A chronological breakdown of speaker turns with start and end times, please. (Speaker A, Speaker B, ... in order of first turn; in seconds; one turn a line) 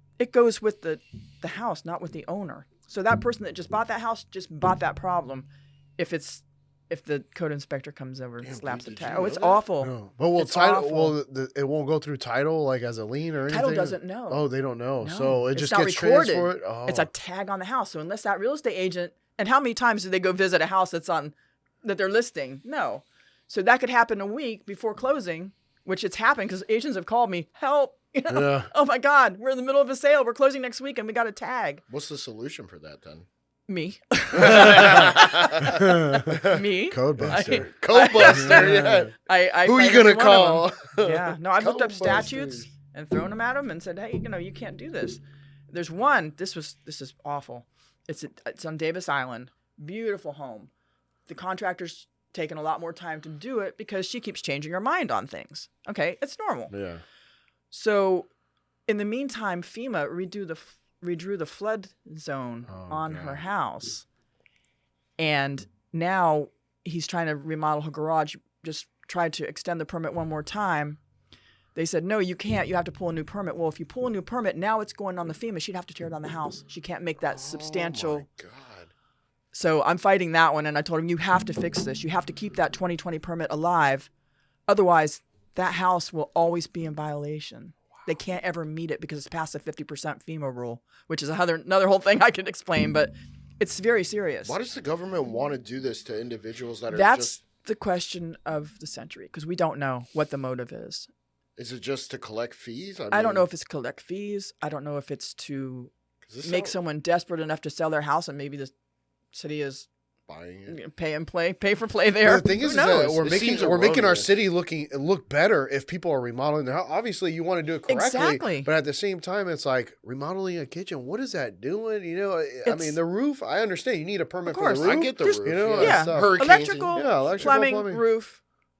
Speaker A: 0.2-11.2
Speaker B: 8.4-9.6
Speaker C: 9.8-17.1
Speaker A: 13.5-14.5
Speaker A: 15.0-31.8
Speaker C: 28.3-28.7
Speaker B: 31.9-33.2
Speaker A: 33.7-50.7
Speaker B: 34.4-35.7
Speaker C: 34.5-35.0
Speaker C: 35.6-37.7
Speaker B: 36.4-36.6
Speaker B: 37.8-42.7
Speaker C: 38.3-39.1
Speaker A: 51.3-56.7
Speaker C: 56.7-57.0
Speaker A: 57.7-58.3
Speaker A: 58.9-64.0
Speaker C: 62.7-63.4
Speaker A: 65.2-71.0
Speaker A: 71.7-78.2
Speaker B: 77.2-78.9
Speaker A: 79.5-84.1
Speaker A: 84.7-94.5
Speaker B: 94.4-97.4
Speaker A: 96.9-101.1
Speaker B: 101.6-103.5
Speaker A: 103.1-105.9
Speaker B: 106.2-106.8
Speaker A: 106.4-108.7
Speaker A: 109.3-109.9
Speaker B: 110.3-110.8
Speaker A: 110.7-113.3
Speaker C: 112.2-126.4
Speaker B: 113.2-114.3
Speaker A: 117.9-118.7
Speaker A: 122.6-123.0
Speaker A: 124.5-128.4
Speaker B: 124.8-127.5
Speaker C: 126.9-128.0